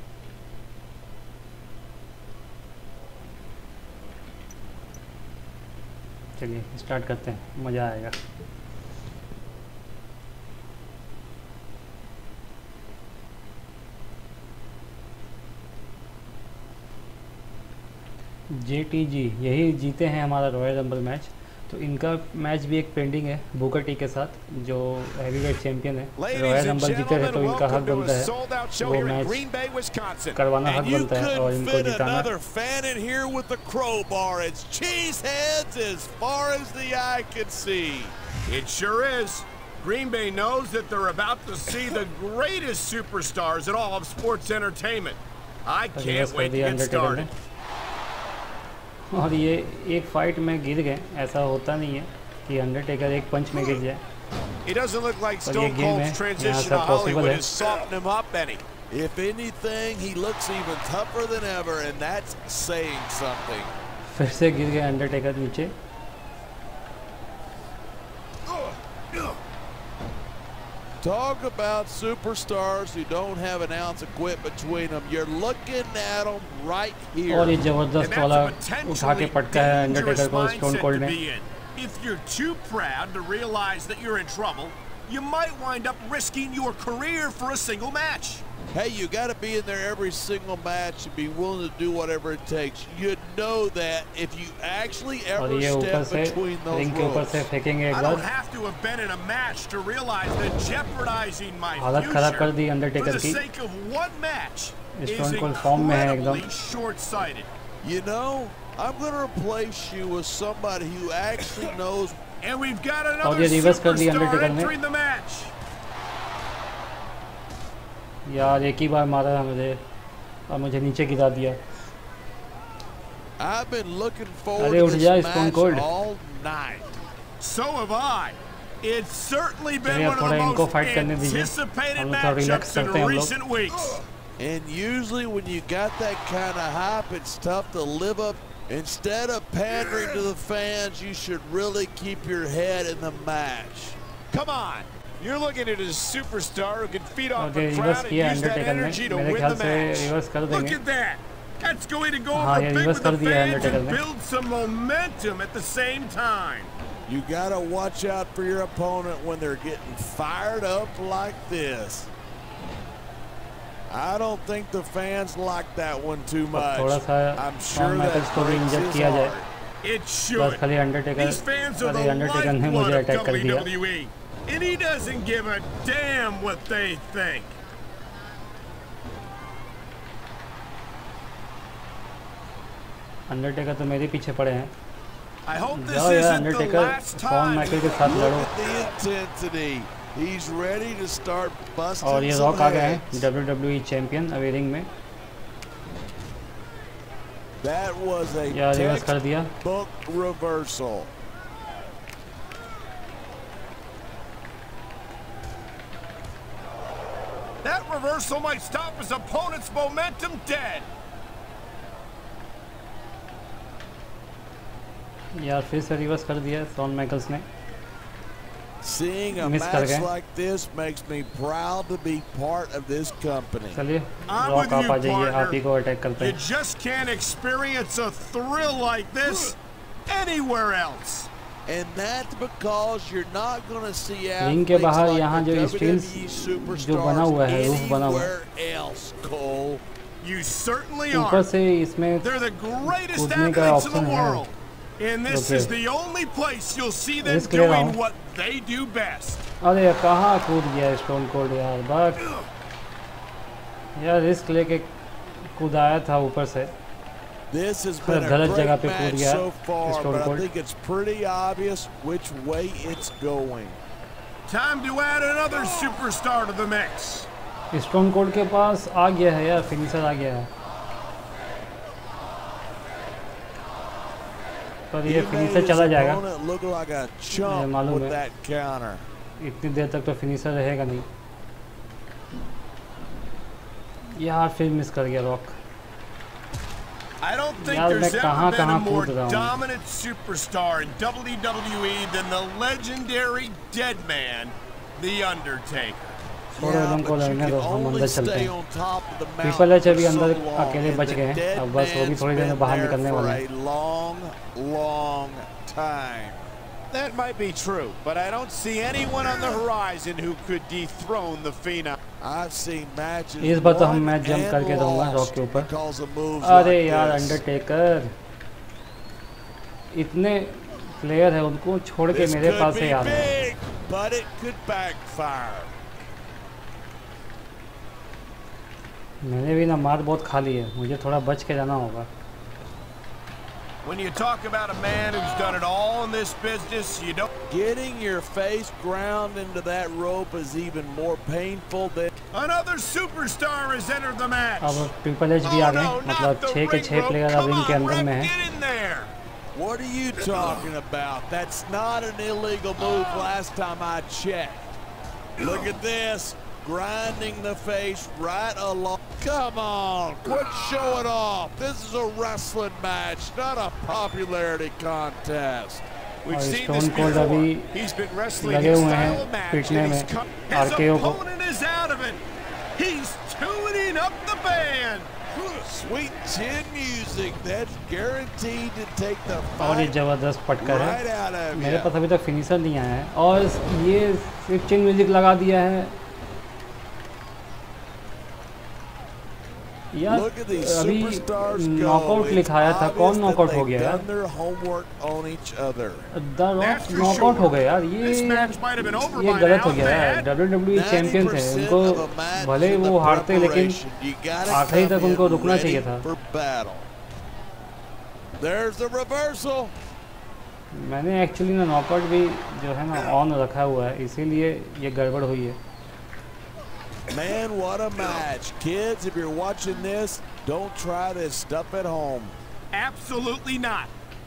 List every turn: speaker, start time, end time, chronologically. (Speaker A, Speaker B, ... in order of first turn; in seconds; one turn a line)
Speaker A: 6.4-8.2
Speaker A: 18.5-29.5
Speaker B: 26.2-30.5
Speaker A: 30.4-32.3
Speaker C: 30.6-38.1
Speaker B: 38.5-47.3
Speaker A: 46.0-47.3
Speaker A: 49.1-54.0
Speaker B: 54.6-58.6
Speaker A: 55.5-57.5
Speaker C: 58.9-63.7
Speaker A: 64.1-65.7
Speaker C: 71.0-77.6
Speaker A: 77.3-81.2
Speaker B: 78.0-88.5
Speaker C: 88.7-97.5
Speaker A: 95.4-98.3
Speaker B: 97.9-107.5
Speaker A: 101.8-103.4
Speaker A: 105.0-106.5
Speaker C: 107.8-112.2
Speaker B: 112.4-115.5
Speaker A: 113.2-114.7
Speaker A: 118.3-119.8
Speaker A: 120.5-121.6
Speaker C: 123.4-127.0
Speaker A: 124.6-125.9
Speaker B: 127.4-134.0
Speaker A: 129.8-133.3
Speaker C: 134.4-144.0
Speaker B: 144.3-156.7
Speaker A: 147.4-150.8
Speaker A: 152.3-154.0
Speaker C: 157.1-162.1
Speaker C: 163.9-169.5
Speaker A: 166.5-169.3
Speaker B: 169.8-170.6
Speaker A: 170.3-173.7
Speaker B: 171.1-177.6
Speaker A: 183.3-184.7
Speaker B: 185.5-188.0
Speaker A: 185.7-188.5
Speaker C: 187.8-193.3
Speaker A: 192.0-194.9
Speaker C: 197.6-201.1
Speaker A: 198.5-199.5
Speaker B: 207.6-210.9
Speaker A: 215.3-217.5
Speaker C: 218.8-223.8
Speaker A: 219.4-220.1
Speaker A: 223.7-226.4
Speaker B: 224.3-225.6
Speaker B: 226.2-231.3
Speaker C: 231.7-239.8
Speaker A: 234.4-238.3
Speaker B: 240.2-241.5
Speaker A: 241.1-242.3
Speaker B: 242.2-249.4
Speaker A: 242.9-244.4
Speaker A: 245.3-245.7
Speaker A: 247.2-248.0
Speaker A: 249.6-252.3
Speaker A: 254.0-256.7
Speaker C: 257.5-263.8
Speaker A: 258.0-260.5
Speaker B: 264.5-267.3
Speaker A: 267.7-270.5
Speaker A: 274.9-276.2
Speaker C: 275.0-279.0
Speaker A: 277.3-278.2
Speaker A: 279.4-281.1
Speaker A: 284.2-285.6
Speaker B: 287.2-296.0
Speaker A: 287.6-289.5
Speaker C: 296.6-306.4
Speaker A: 296.6-298.5
Speaker A: 299.4-303.4
Speaker B: 306.9-312.0
Speaker C: 312.2-317.4
Speaker A: 313.4-315.7
Speaker A: 316.4-318.1
Speaker A: 319.9-323.3
Speaker C: 322.1-325.7
Speaker A: 329.2-332.1
Speaker B: 333.8-337.3
Speaker C: 337.5-342.1
Speaker B: 342.3-344.9
Speaker A: 344.6-348.3
Speaker B: 345.4-349.1
Speaker C: 349.5-354.8
Speaker C: 355.4-365.9
Speaker B: 366.2-372.2
Speaker A: 366.3-367.7
Speaker A: 368.4-371.2
Speaker B: 372.8-375.1
Speaker C: 375.4-379.9
Speaker A: 379.6-381.0
Speaker C: 380.6-381.9
Speaker A: 381.5-385.9
Speaker A: 389.9-394.0
Speaker C: 390.1-396.1
Speaker A: 396.1-403.8
Speaker B: 396.6-400.3
Speaker C: 396.9-397.5
Speaker C: 400.7-406.9
Speaker A: 404.5-406.1
Speaker C: 408.4-409.7
Speaker A: 410.7-415.6
Speaker C: 417.1-422.3
Speaker B: 422.7-423.9